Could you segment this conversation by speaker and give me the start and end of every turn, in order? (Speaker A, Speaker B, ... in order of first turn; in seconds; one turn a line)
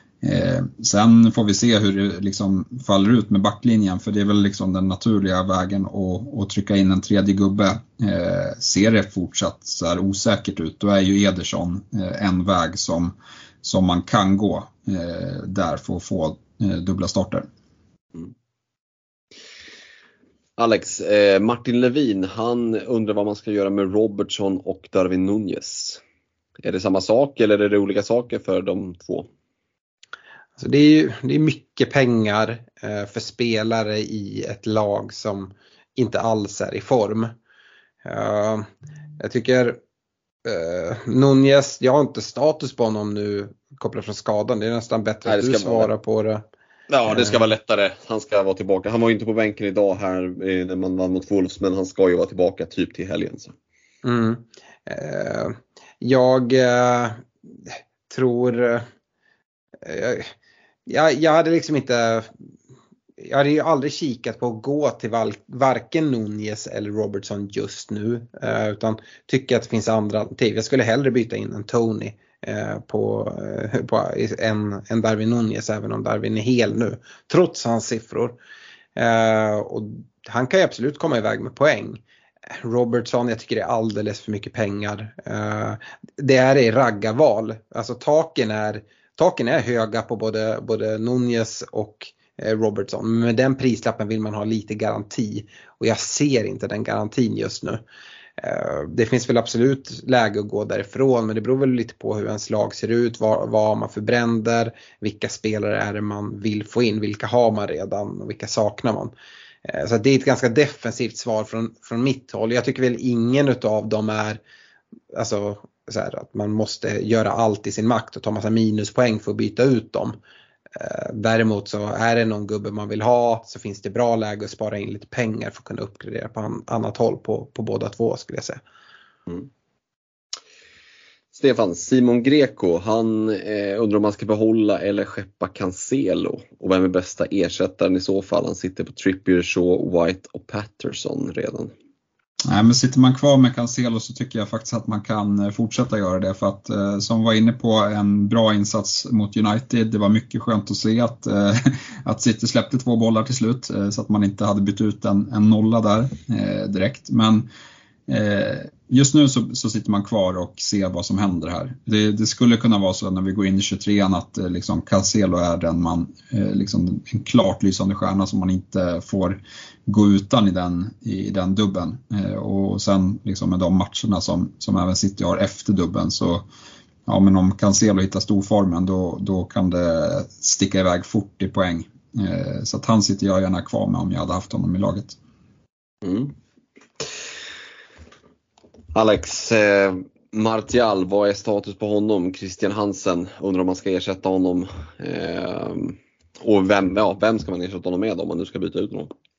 Speaker A: 0.2-17.5
Speaker B: 20.6-26.0
Speaker B: 26.6-29.3
Speaker C: 30.6-37.3
Speaker C: 38.0-38.7
Speaker C: 39.2-39.8
Speaker C: 40.5-46.5
Speaker B: 45.3-45.9
Speaker B: 46.9-53.5
Speaker C: 47.1-47.4
Speaker C: 54.0-58.9
Speaker C: 59.8-60.3
Speaker C: 60.9-62.3
Speaker C: 63.2-78.4
Speaker C: 79.0-97.8
Speaker C: 98.4-109.1
Speaker C: 109.7-114.4
Speaker C: 115.1-120.2
Speaker C: 120.8-128.6
Speaker B: 131.3-141.7
Speaker A: 142.4-157.5
Speaker A: 158.1-176.5
Speaker A: 177.1-185.2
Speaker B: 186.0-186.3
Speaker B: 188.9-199.1